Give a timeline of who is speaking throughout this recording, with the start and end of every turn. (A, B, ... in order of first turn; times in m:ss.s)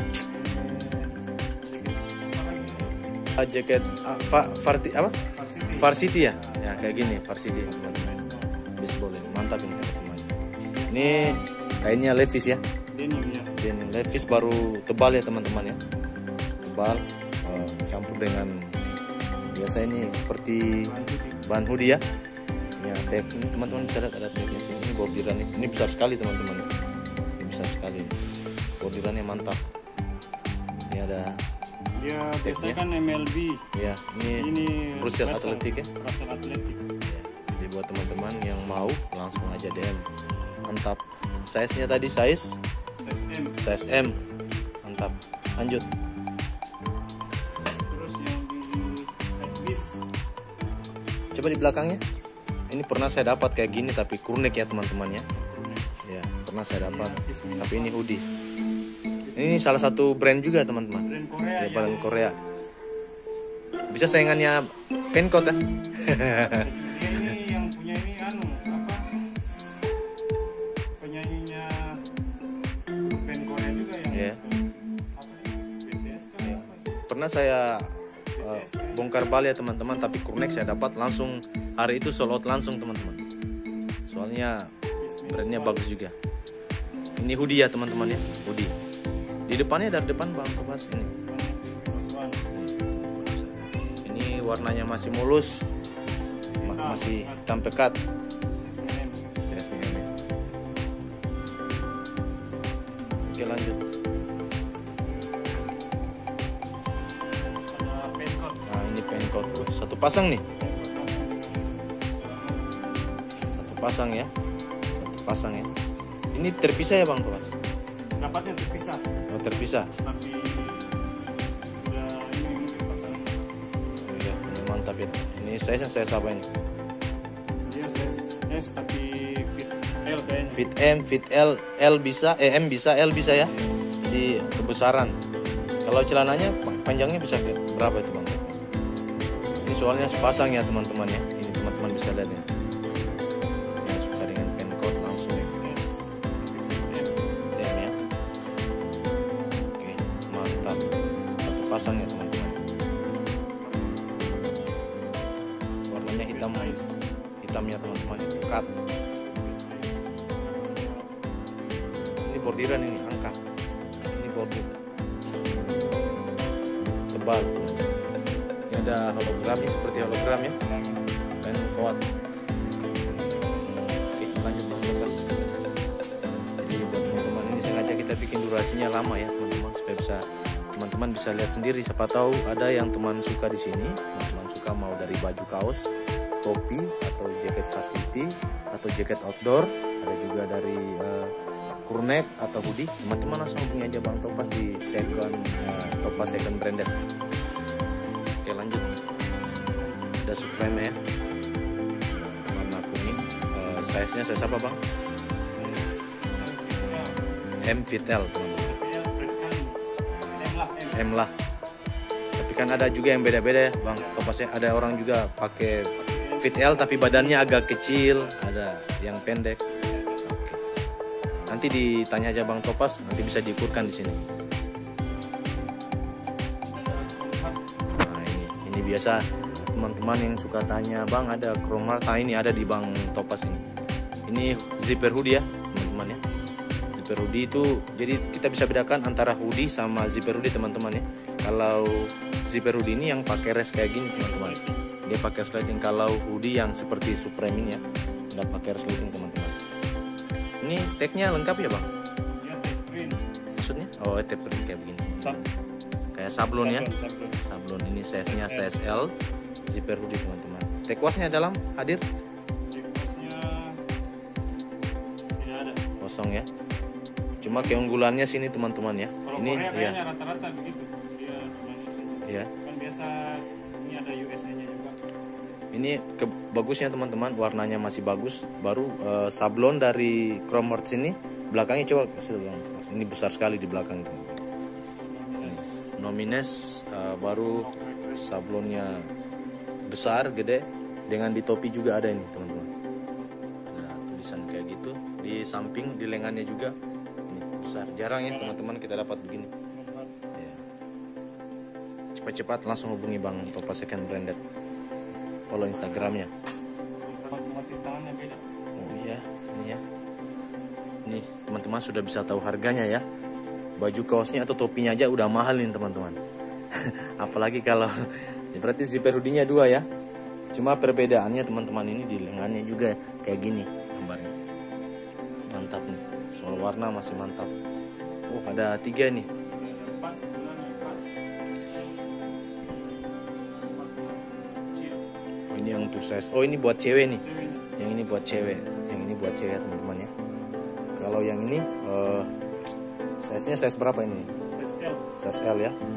0:00.3-0:03.1 A
0:03.3-0:05.2 B
0:05.3-0:08.6 A
0:05.7-0:08.1 B
0:08.8-0:10.3 B
0:10.7-0:11.5 A
0:10.9-0:12.6 B
0:12.9-0:13.5 A
0:13.6-0:15.8 B
0:16.6-0:18.8 B
0:19.5-0:20.9 B
0:20.8-0:21.5 A
0:21.4-0:22.0 B
0:22.8-0:26.7 B
0:27.4-0:28.2 B
0:28.8-0:29.6 B
0:30.9-0:31.4 B
0:32.0-0:33.6 A
0:32.4-0:32.8 B
0:33.7-0:35.9 B
0:34.3-0:36.8 A
0:37.0-0:40.1 B
0:40.6-0:42.6 B
0:43.0-0:43.6 A
0:43.6-0:44.2 B
0:44.8-0:45.9 B
0:47.7-0:50.1 A
0:51.3-0:52.0 B
0:52.7-0:55.3 B
0:55.3-0:55.9 A
0:56.0-0:58.2 B
0:56.8-0:58.1 A
0:59.2-0:59.9 A
0:59.4-1:02.4 B
1:01.0-1:02.3 A
1:03.9-1:07.3 B
1:04.0-1:04.4 A
1:06.2-1:09.1 A
1:11.0-1:12.0 A
1:13.0-1:17.0 A
1:14.1-1:14.4 B
1:16.4-1:23.2 B
1:18.4-1:19.1 A
1:24.1-1:24.7 B
1:25.0-1:25.8 A
1:25.3-1:26.1 B
1:27.2-1:28.7 B
1:29.5-1:31.1 B
1:31.3-1:32.5 A
1:32.5-1:35.6 B
1:36.6-1:37.4 A
1:36.6-1:38.0 B
1:38.6-1:39.4 A
1:39.4-1:40.1 B
1:43.3-1:43.8 B
1:47.7-1:48.6 A
1:48.6-1:50.4 B
1:50.5-1:52.8 A
1:53.5-1:54.3 B
1:54.9-1:55.7 B
1:56.3-1:57.5 B
1:58.2-1:59.0 A
1:59.3-1:59.9 B
2:00.0-2:00.9 A
2:01.8-2:03.4 A
2:04.0-2:06.5 B
2:07.6-2:10.7 A
2:10.5-2:15.2 B
2:15.8-2:18.6 B
2:19.6-2:22.5 B
2:23.8-2:25.6 B
2:25.3-2:27.2 A
2:27.6-2:28.0 B
2:29.6-2:30.9 B
2:31.4-2:32.6 B
2:33.6-2:34.1 A
2:35.9-2:36.8 B
2:36.1-2:37.1 A
2:37.4-2:38.7 B
2:39.2-2:41.1 A
2:42.2-2:43.4 B
2:44.0-2:44.8 B
2:47.1-2:47.9 B
2:48.7-2:50.6 B
2:50.3-2:51.1 A
2:51.4-2:52.0 B
2:52.8-2:53.3 B
2:54.1-2:55.3 B
2:56.6-3:05.9 B
3:06.4-3:11.3 B
3:11.8-3:17.0 B
3:18.4-3:18.9 B
3:19.5-3:20.1 A
3:20.2-3:21.0 B
3:22.2-3:24.8 B
3:25.5-3:27.2 A
3:27.6-3:28.7 B
3:28.6-3:29.8 A
3:30.3-3:31.1 A
3:30.9-3:31.3 B
3:32.4-3:39.6 B
3:33.9-3:34.2 A
3:36.0-3:38.4 A
3:39.6-3:40.4 A
3:40.2-3:40.6 B
3:41.5-3:44.2 B
3:46.7-3:47.6 A
3:47.9-3:53.6 B
3:54.3-3:56.2 B
3:55.9-3:56.5 A
3:56.9-4:09.5 B
4:04.1-4:04.9 A
4:10.6-4:11.9 B
4:12.3-4:13.2 A
4:13.6-4:15.5 B
4:16.1-4:19.1 B
4:16.5-4:17.4 A
4:18.2-4:18.8 A
4:19.6-4:22.0 B
4:22.7-4:23.8 A
4:25.4-4:25.8 A
4:26.0-4:26.5 B
4:27.4-4:30.0 B
4:27.5-4:28.0 A
4:29.2-4:35.0 A
4:32.2-4:32.5 B
4:35.7-4:44.4 B
4:45.1-4:45.9 A
4:45.4-4:49.1 B
4:47.6-4:48.3 A
4:49.9-4:52.7 B
4:53.7-4:56.7 B
4:57.3-4:59.5 B
4:58.2-4:58.6 A
4:59.7-5:00.1 A
5:00.3-5:00.6 B
5:02.1-5:04.4 B
5:05.5-5:06.3 B
5:07.0-5:08.4 A
5:08.8-5:09.8 B
5:11.0-5:13.0 B
5:13.8-5:16.2 B
5:16.7-5:19.8 B
5:20.5-5:24.3 B
5:25.5-5:27.5 B
5:28.3-5:29.3 B
5:29.4-5:31.0 A
5:33.6-5:35.0 A
5:35.5-5:37.2 B
5:37.1-5:37.7 A
5:37.8-5:40.1 B
5:41.0-5:42.3 B
5:43.2-5:44.3 B
5:44.5-5:45.1 A
5:45.2-5:45.8 B